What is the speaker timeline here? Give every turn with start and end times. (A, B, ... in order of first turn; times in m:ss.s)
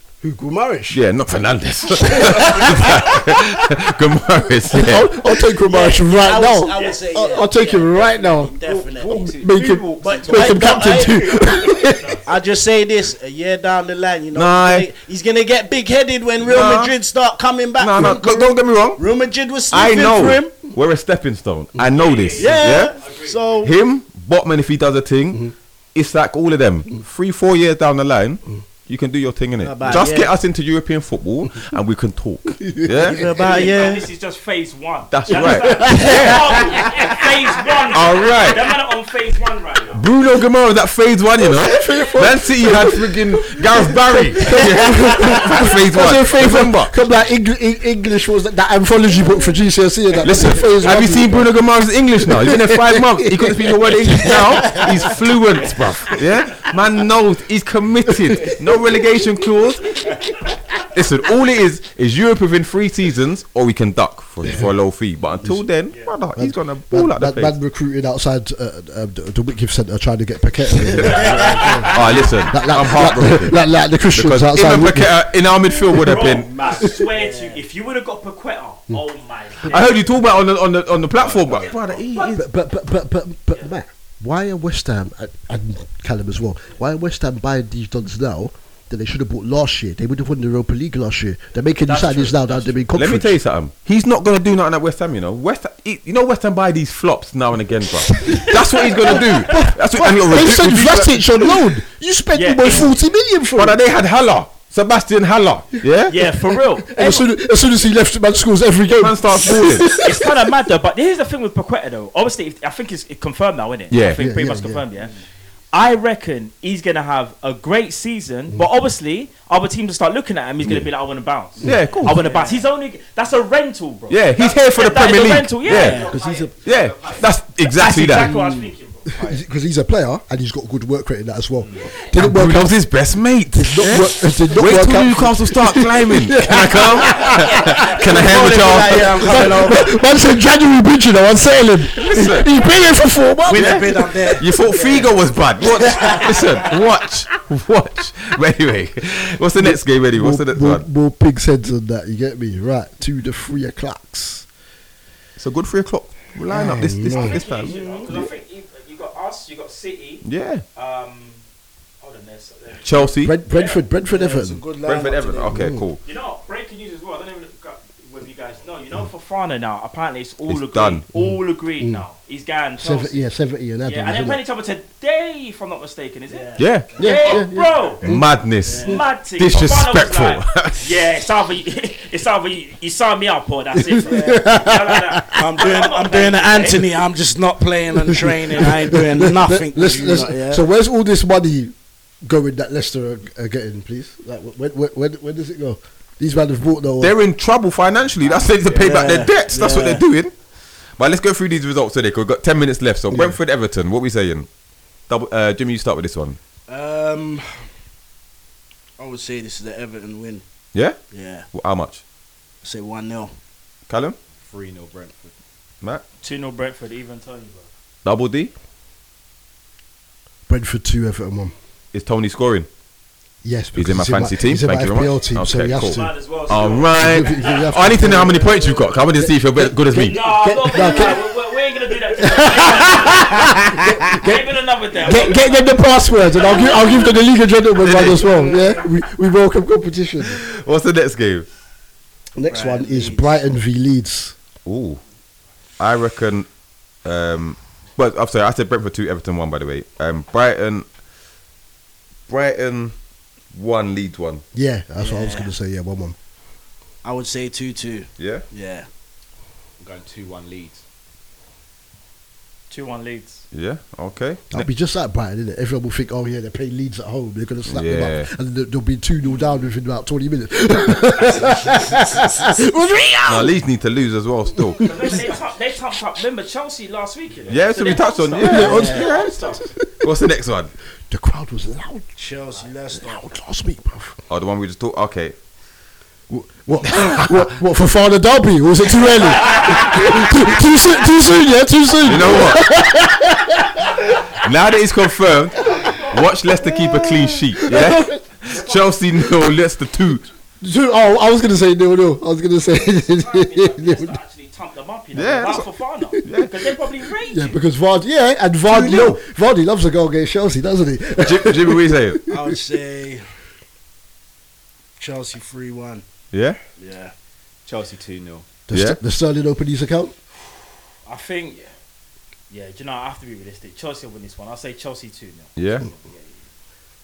0:00.2-0:01.0 A
0:00.9-0:05.2 B
0:02.1-0:02.8 A
0:04.7-0:12.2 A
0:05.7-0:09.2 C
0:08.6-0:12.0 D
0:10.0-0:11.6 C
0:12.2-0:20.6 C
0:14.3-0:14.9 B
0:16.4-0:16.9 B
0:17.8-0:19.0 B
0:19.7-0:23.0 B
0:21.8-0:23.7 E
0:22.4-0:23.7 C
0:23.6-0:33.3 B
0:29.6-0:30.3 C
0:32.6-0:33.2 A
0:33.0-0:34.1 C
0:33.3-0:40.0 E
0:35.1-0:36.5 B
0:35.3-0:36.2 A
0:36.1-0:36.6 C
0:37.9-0:38.6 B
0:39.9-0:46.9 B
0:41.5-0:43.2 A
0:43.8-0:51.5 A
0:50.2-1:00.0 B
0:52.2-0:55.1 A
0:58.7-0:59.0 D
1:00.9-1:07.6 B
1:04.4-1:04.7 A
1:06.4-1:15.3 A
1:11.0-1:13.6 B
1:11.0-1:11.9 C
1:11.1-1:12.1 E
1:14.1-1:16.5 B
1:15.8-1:20.1 E
1:16.6-1:17.6 C
1:19.7-1:22.4 B
1:21.1-1:22.0 D
1:21.6-1:22.4 E
1:22.4-1:33.4 A
1:31.8-1:33.0 E
1:32.9-1:41.5 B
1:39.1-1:43.8 A
1:42.3-1:43.0 E
1:43.6-1:46.2 B
1:46.1-1:47.3 E
1:46.2-1:50.4 A
1:49.0-1:50.0 B
1:49.9-1:55.2 E
1:53.9-1:54.2 B
1:54.1-1:54.8 A
1:55.7-2:09.3 E
2:01.6-2:02.3 B
2:02.2-2:02.6 C
2:04.1-2:06.1 B
2:05.6-2:06.5 C
2:06.0-2:06.5 A
2:06.6-2:08.3 B
2:08.2-2:12.8 A
2:12.1-2:19.5 B
2:13.5-2:18.0 A
2:17.9-2:19.9 C
2:19.2-2:24.2 A
2:21.9-2:22.6 B
2:23.5-2:25.1 C
2:23.5-2:30.8 B
2:25.7-2:26.7 C
2:29.6-2:34.5 A
2:35.4-2:38.0 B
2:36.5-2:37.4 A
2:37.0-2:41.4 E
2:37.6-2:38.1 C
2:40.2-2:40.6 B
2:42.0-2:43.8 E
2:42.8-2:43.4 B
2:43.0-2:44.6 A
2:44.1-2:45.6 C
2:44.8-2:46.0 B
2:45.5-2:45.8 A
2:46.0-2:53.2 E
2:50.5-2:51.1 B
2:51.1-2:52.0 A
2:52.8-2:54.4 A
2:53.8-2:58.0 E
2:56.3-2:57.9 C
2:56.6-2:56.9 B
2:57.0-2:59.0 A
2:58.0-3:01.0 B
2:58.6-2:59.0 C
2:58.8-3:07.0 E
3:03.8-3:05.4 A
3:04.0-3:04.6 C
3:05.3-3:10.6 C
3:08.1-3:17.1 A
3:17.0-3:20.3 B
3:18.2-3:19.1 D
3:18.7-3:20.0 C
3:21.0-3:24.5 B
3:23.1-3:23.4 A
3:25.1-3:26.4 B
3:26.7-3:27.6 C
3:29.0-3:30.4 C
3:31.1-3:31.5 C
3:31.5-3:32.0 B
3:32.6-3:33.3 C
3:33.9-3:34.2 B
3:34.4-3:35.4 D
3:36.2-3:37.7 E
3:38.0-3:38.5 B
3:40.5-3:41.5 A
3:41.9-3:42.7 B
3:43.4-3:46.2 A
3:43.8-3:50.2 B
3:45.8-3:48.7 E
3:46.7-3:51.4 A
3:49.9-3:57.2 E
3:52.1-4:00.4 A
3:57.8-3:58.3 B
4:00.2-4:01.5 B
4:02.4-4:04.4 A
4:02.5-4:03.4 C
4:04.6-4:05.0 B
4:05.8-4:06.5 B
4:07.0-4:10.9 B
4:12.3-4:13.0 B
4:13.5-4:14.4 B
4:14.5-4:16.2 A
4:15.0-4:15.5 C
4:17.0-4:18.9 C
4:18.2-4:18.4 B
4:19.8-4:20.8 D
4:22.7-4:23.5 E
4:23.5-4:24.7 B
4:24.5-4:33.5 A
4:27.7-4:28.3 B
4:33.3-4:35.1 B
4:34.8-4:35.3 A
4:34.8-4:39.6 E
4:37.5-4:40.7 B
4:38.4-4:40.0 A
4:38.6-4:39.3 C
4:41.1-4:42.1 A
4:42.2-4:43.3 C
4:42.9-4:44.2 A
4:44.3-4:45.4 B
4:46.3-4:54.1 A
4:46.8-4:47.5 B
4:52.0-4:52.6 B
4:54.4-5:00.3 B
4:55.6-4:56.2 E
4:56.6-4:58.2 A
5:00.6-5:04.2 A
5:02.9-5:07.6 E
5:05.2-5:06.6 B
5:07.3-5:12.2 A
5:08.7-5:09.2 B
5:11.2-5:12.2 B
5:12.3-5:13.2 C
5:15.0-5:16.0 C
5:16.3-5:16.6 B
5:16.8-5:17.1 C
5:17.6-5:18.5 D
5:18.7-5:20.1 A
5:18.7-5:19.0 B
5:21.0-5:21.7 E
5:22.5-5:26.4 E
5:25.6-5:25.9 B